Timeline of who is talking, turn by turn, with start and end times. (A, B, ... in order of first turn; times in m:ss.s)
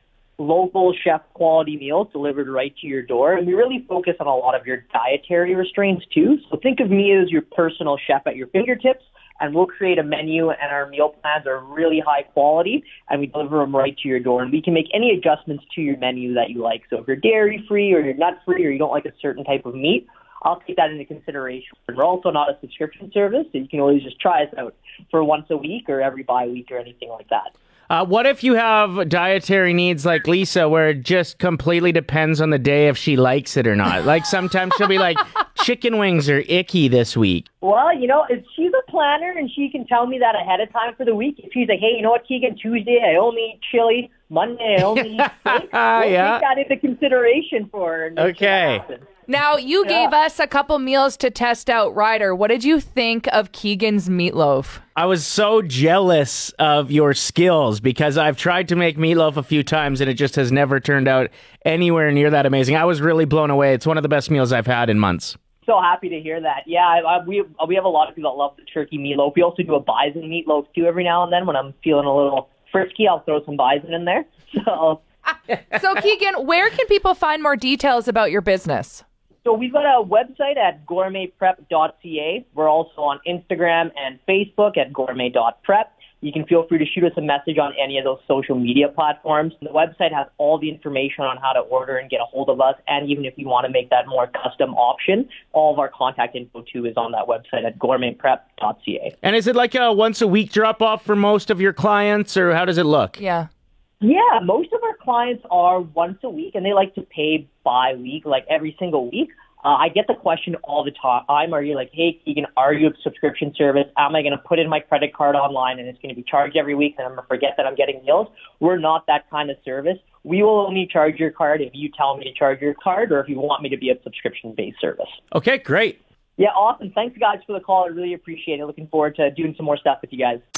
0:00.4-0:27.5 A
0:27.9-0:37.5 B
0:37.6-0:49.0 A
0:44.8-0:46.4 B
0:48.2-0:48.8 B
0:49.3-0:54.8 C
0:49.8-0:50.1 A
0:55.0-1:05.4 B
1:05.7-1:15.0 A
1:15.7-1:19.0 C
1:19.4-1:39.2 A
1:39.2-1:43.2 B
1:43.2-1:43.5 C
1:44.0-2:05.2 A
2:05.3-2:06.0 B
2:06.4-2:10.4 A